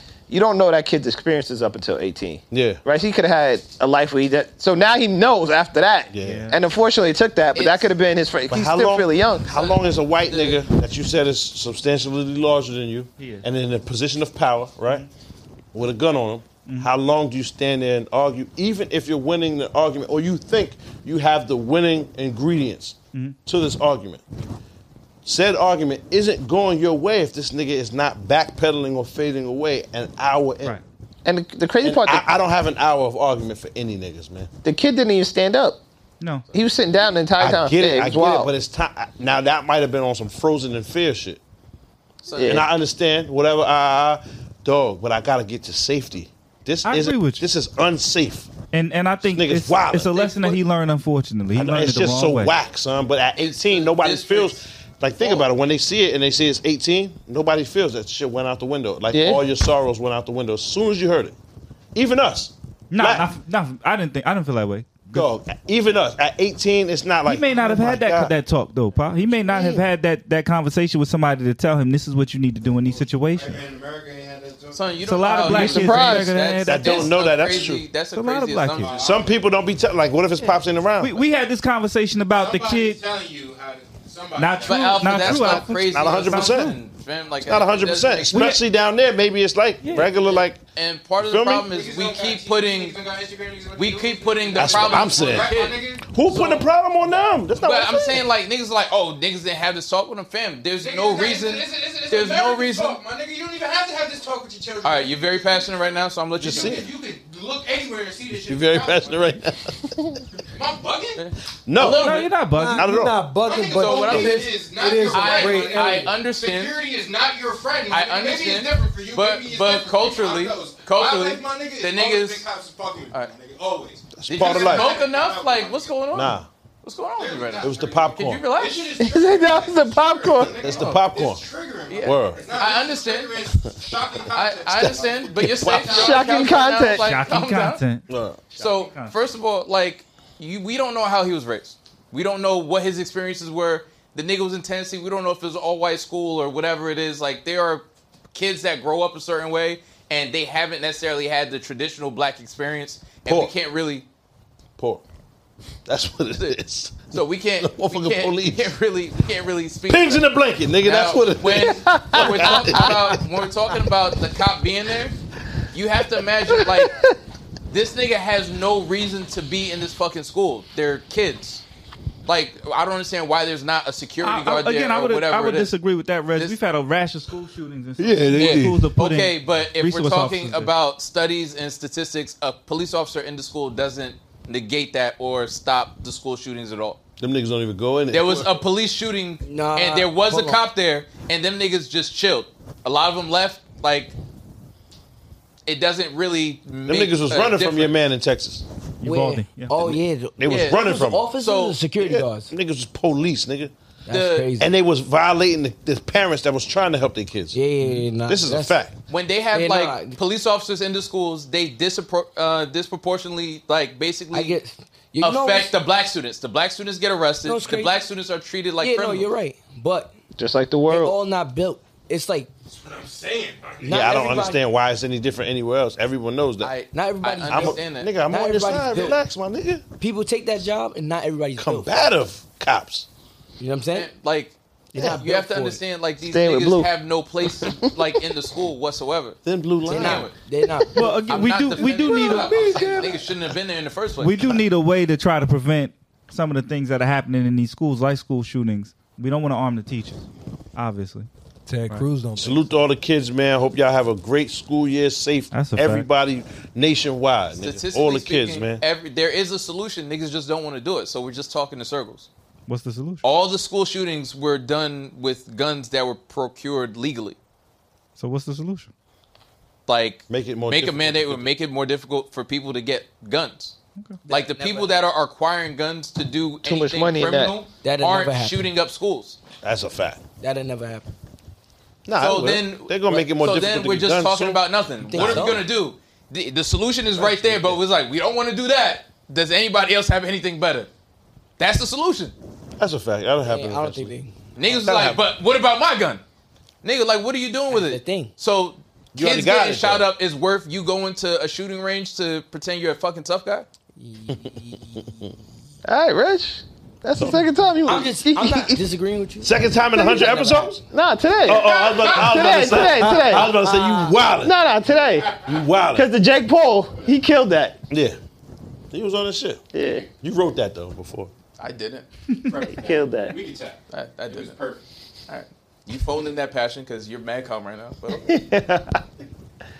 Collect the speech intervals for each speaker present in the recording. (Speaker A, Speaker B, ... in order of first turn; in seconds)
Speaker A: 0.3-9.5, 31.2-32.2, 34.6-35.8, 36.5-38.5, 42.3-42.7, 59.1-59.4, 69.5-69.8, 75.4-76.3, 129.0-130.5, 135.9-137.1, 161.8-162.8, 166.8-167.2, 220.4-221.1, 236.2-236.9, 237.6-237.9, 276.6-277.6, 305.8-308.8, 309.9-317.8, 319.7-320.1, 322.7-323.4, 328.2-329.0
Speaker B: 2.5-2.8, 6.1-6.5, 8.5-15.1, 15.7-24.2, 25.2-30.8, 31.8-34.5, 37.4-41.4, 42.4-48.5, 49.2-50.4, 51.5-61.3, 61.9-63.3, 65.1-68.3, 76.7-77.9, 78.9-81.2, 85.1-86.8, 87.4-90.6, 91.2-91.7, 94.5-95.5, 96.1-98.3, 106.4-106.9, 108.5-109.9, 111.7-113.2, 124.2-125.0, 126.1-126.5, 127.6-128.4, 130.6-131.4, 132.0-132.4, 135.3-135.9, 138.1-138.4, 153.2-153.5, 154.8-155.0, 155.8-158.7, 159.9-163.2, 178.0-178.9, 187.2-188.6, 196.8-198.6, 199.8-201.2, 202.0-203.7, 204.6-207.6, 208.2-208.9, 223.8-226.7, 227.5-229.8, 231.6-233.1, 234.9-235.2, 239.4-240.3, 252.4-258.8, 270.3-271.4, 279.6-280.2, 282.1-285.5, 287.2-287.8, 292.8-294.1, 294.6-295.2, 299.1-300.1, 309.4-310.8, 311.4-314.5, 315.4-316.1, 317.9-318.2, 318.9-319.6, 320.2-321.3
Speaker C: 6.2-6.6, 13.2-13.4, 16.6-16.9, 36.2-36.4, 46.8-47.4, 48.7-52.5, 62.9-65.3, 67.2-73.6, 75.0-77.2, 78.1-78.9, 81.0-83.0, 84.4-86.8, 88.3-88.6, 89.8-90.1, 111.9-112.9, 136.9-139.1, 174.2-180.7, 199.0-199.9, 207.8-208.1, 240.9-242.9, 244.2-251.3, 255.5-256.1, 262.7-263.2, 268.2-268.9
Speaker D: 7.5-7.9, 9.5-10.6, 42.2-42.6, 50.1-50.6, 53.4-54.6, 55.2-55.5, 74.7-79.1, 84.6-88.5, 90.0-93.0, 93.8-96.7, 97.6-103.0, 104.8-106.8, 111.2-112.3, 113.7-116.8, 117.9-122.5, 124.3-129.0, 130.6-131.1, 131.9-133.4, 134.3-137.8, 138.6-154.1, 157.1-160.3, 160.8-165.1, 165.7-167.0, 167.7-171.6, 172.2-175.7, 178.3-187.0, 188.1-194.2, 195.7-198.0, 200.4-201.8, 204.1-204.5, 209.1-214.6, 215.2-219.3, 226.6-228.1, 233.9-234.6, 235.2-240.3, 241.3-244.6, 257.6-262.3, 263.2-267.4, 269.9-273.8, 274.3-279.4, 282.2-290.9, 291.6-292.3, 294.6-296.2, 296.8-303.7, 321.6-322.1, 323.9-324.6, 325.3-328.4
Speaker E: 73.2-75.0, 78.8-79.3, 82.3-85.3, 91.7-96.0, 100.8-109.3, 110.5-111.2, 113.4-126.0, 127.2-136.6, 222.7-223.9, 322.3-324.8
Speaker F: 112.4-116.2, 242.8-243.1, 251.7-252.7, 312.3-313.7
Speaker G: 189.4-190.6, 199.0-202.5, 204.1-204.7, 207.5-208.8, 209.5-210.2, 214.3-215.7, 217.4-218.0, 218.8-220.1, 220.9-222.5, 223.8-224.6, 226.9-229.2, 230.0-231.9, 233.6-234.1, 234.9-235.8, 239.8-241.2, 274.2-275.0, 277.8-278.7, 280.4-281.1, 285.1-285.7, 293.4-294.3, 297.7-298.3, 304.0-305.4, 307.8-310.8